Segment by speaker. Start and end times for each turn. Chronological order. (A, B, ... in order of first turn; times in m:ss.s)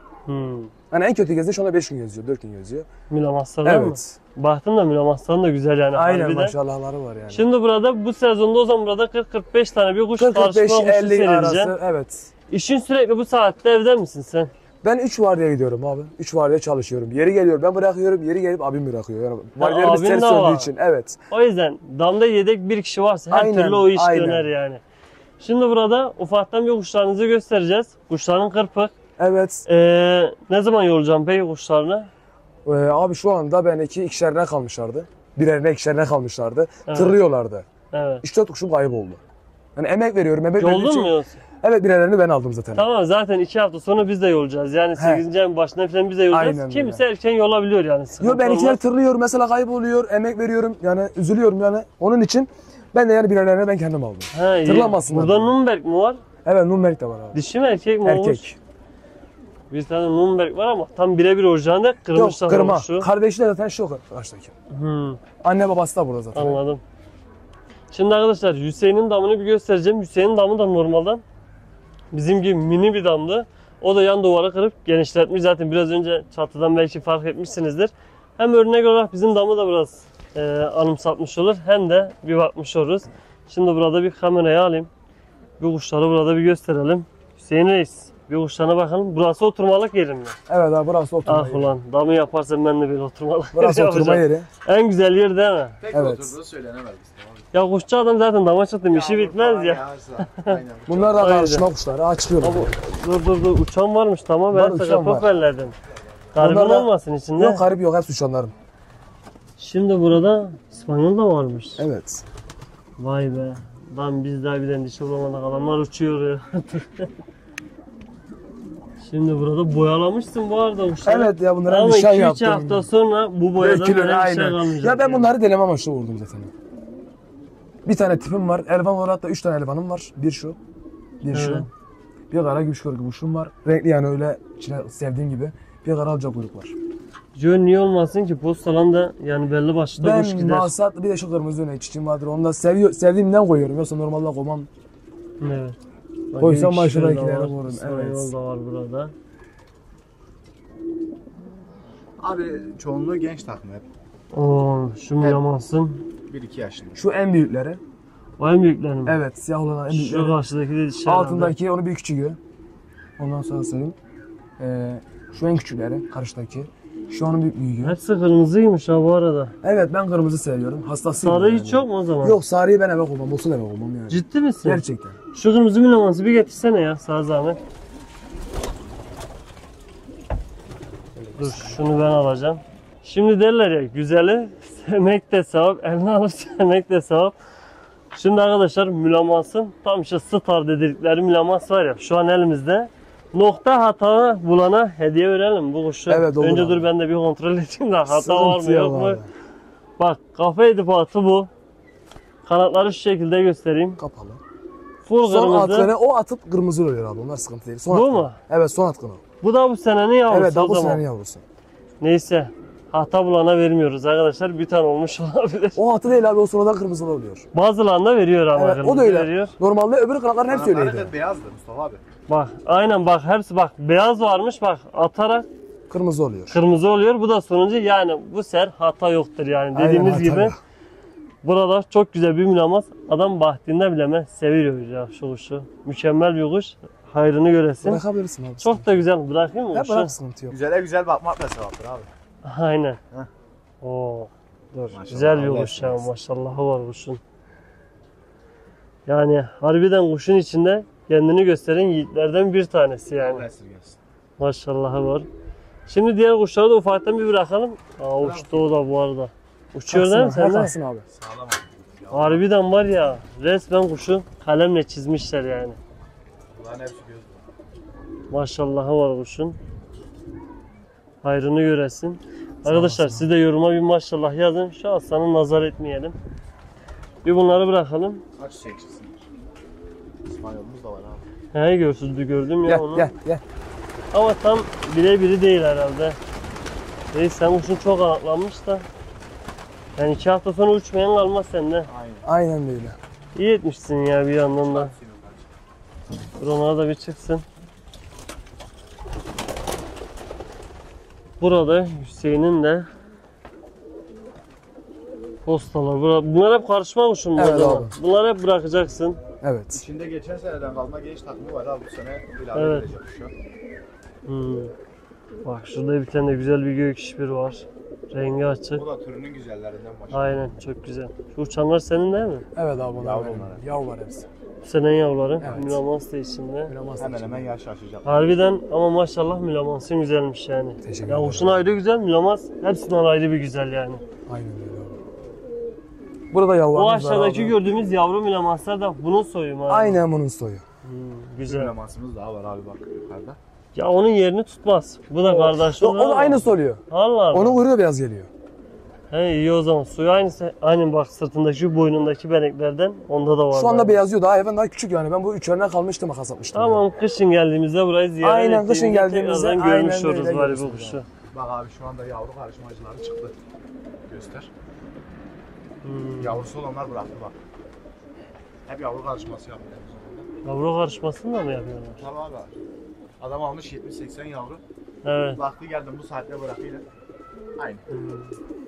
0:00.2-0:00.7 A
0:00.9-0:02.9 B
0:03.1-0:06.6 A
0:03.6-0:04.2 B
0:05.9-0:07.4 B
0:07.3-0:11.7 A
0:10.2-0:12.3 B
0:12.5-0:14.5 A
0:14.8-0:21.2 B
0:19.6-0:20.7 A
0:21.3-0:24.8 A
0:23.3-0:24.5 B
0:25.4-0:28.9 A
0:29.2-0:29.6 B
0:29.6-0:32.1 A
0:32.6-0:37.6 B
0:36.9-0:37.2 A
0:37.9-0:38.2 A
0:38.2-0:39.2 B
0:39.7-0:42.8 B
0:40.6-0:41.4 A
0:42.7-0:48.8 A
0:45.0-0:45.2 B
0:46.3-0:47.0 B
0:48.2-0:55.5 B
0:54.3-0:56.2 A
0:56.4-0:57.4 B
0:57.3-0:58.4 A
0:58.0-0:58.6 B
0:59.7-1:03.1 A
1:02.1-1:04.5 B
1:04.7-1:05.2 A
1:05.4-1:06.6 B
1:06.3-1:06.8 A
1:07.9-1:11.2 A
1:12.1-1:24.9 A
1:25.6-1:30.4 A
1:30.5-1:31.7 B
1:31.2-1:35.8 A
1:33.5-1:34.5 B
1:35.8-1:37.5 C
1:35.9-1:36.3 B
1:37.5-1:39.8 A
1:38.9-1:41.3 C
1:40.9-1:42.7 B
1:41.2-1:41.7 A
1:42.4-1:45.7 A
1:44.5-1:45.3 B
1:46.3-1:47.6 A
1:46.3-1:48.5 B
1:49.6-1:51.8 A
1:51.8-1:52.2 B
1:53.0-1:57.1 A
1:59.0-2:05.3 A
2:01.0-2:02.9 B
2:03.6-2:06.5 B
2:07.8-2:10.6 B
2:11.2-2:11.7 B
2:11.3-2:11.7 A
2:12.3-2:16.7 B
2:17.3-2:20.7 A
2:20.0-2:24.7 B
2:25.4-2:25.8 A
2:26.3-2:29.1 A
2:26.4-2:28.3 B
2:32.2-2:33.8 C
2:34.3-2:36.0 A
2:36.3-2:37.0 C
2:37.0-2:37.8 B
2:38.4-2:39.2 A
2:39.0-2:40.4 B
2:39.9-2:41.5 A
2:41.0-2:42.4 B
2:43.2-2:44.0 B
2:44.6-2:48.0 B
2:47.8-2:49.5 A
2:49.6-2:55.2 B
2:51.2-2:52.4 A
2:54.1-2:57.6 A
3:01.2-3:01.8 B
3:01.4-3:07.3 A
3:08.1-3:19.2 A
3:16.1-3:16.9 B
3:18.1-3:19.3 B
3:20.0-3:21.5 A
3:22.4-3:24.0 A
3:24.0-3:24.4 B
3:25.0-3:25.9 A
3:25.2-3:29.2 B
3:27.9-3:28.4 A
3:29.4-3:31.0 A
3:30.3-3:31.4 B
3:32.0-3:35.8 A
3:35.7-3:37.4 B
3:37.5-3:39.5 A
3:38.5-3:41.1 B
3:40.5-3:42.0 C
3:42.3-3:45.5 A
3:45.9-3:46.6 B
3:46.5-3:50.5 A
3:49.7-3:50.6 B
3:51.4-3:58.0 A
3:57.8-3:58.9 B
3:58.6-4:00.1 A
3:59.7-4:00.6 B
4:00.5-4:02.1 C
4:02.4-4:03.0 A
4:03.8-4:07.2 A
4:04.9-4:06.0 C
4:09.1-4:13.4 A
4:13.2-4:14.0 C
4:14.4-4:15.3 A
4:15.9-4:20.7 A
4:18.2-4:18.7 C
4:19.9-4:21.0 B
4:21.1-4:22.4 C
4:22.1-4:25.8 A
4:26.5-4:27.5 C
4:28.3-4:29.6 A
4:31.2-4:36.2 A
4:32.6-4:33.3 B
4:37.2-4:38.2 A
4:38.4-4:39.2 C
4:40.2-4:41.2 C
4:41.5-4:43.1 A
4:42.6-4:43.4 B
4:44.1-4:46.2 A
4:47.1-4:48.8 A
4:50.0-4:51.9 A
4:51.9-4:52.3 C
4:52.2-4:53.0 B
4:53.3-4:54.9 A
4:54.7-4:55.4 C
4:56.4-4:57.4 A
5:01.4-5:02.9 A
5:05.4-5:09.2 A
5:07.4-5:07.9 B
5:09.4-5:09.8 B
5:09.7-5:13.3 C
5:12.5-5:12.9 A
5:14.2-5:14.7 A
5:15.4-5:18.8 A
5:18.7-5:20.5 C
5:20.1-5:22.4 A
5:22.5-5:24.3 B
5:23.0-5:23.6 C
5:24.6-5:26.7 A
5:25.4-5:25.8 B
5:26.7-5:27.5 B
5:27.0-5:28.3 C
5:28.0-5:34.0 A
5:30.8-5:31.7 B
5:34.3-5:35.0 B
5:36.3-5:37.6 B
5:36.7-5:40.0 A
5:39.7-5:40.6 B
5:40.8-5:41.7 A
5:41.4-5:43.4 C
5:43.7-5:47.6 A
5:45.2-5:46.8 B
5:47.3-5:48.3 B
5:49.1-5:54.0 A
5:53.5-5:56.8 B
5:56.5-6:01.0 A
5:58.2-6:01.0 B
6:01.3-6:03.4 C
6:04.1-6:04.5 C
6:05.8-6:06.4 A
6:06.2-6:07.3 C
6:08.7-6:10.3 C
6:10.4-6:12.0 A
6:12.0-6:12.5 C
6:13.2-6:14.6 C
6:15.0-6:15.4 A
6:15.4-6:16.8 C
6:17.6-6:17.8 C
6:17.9-6:18.3 A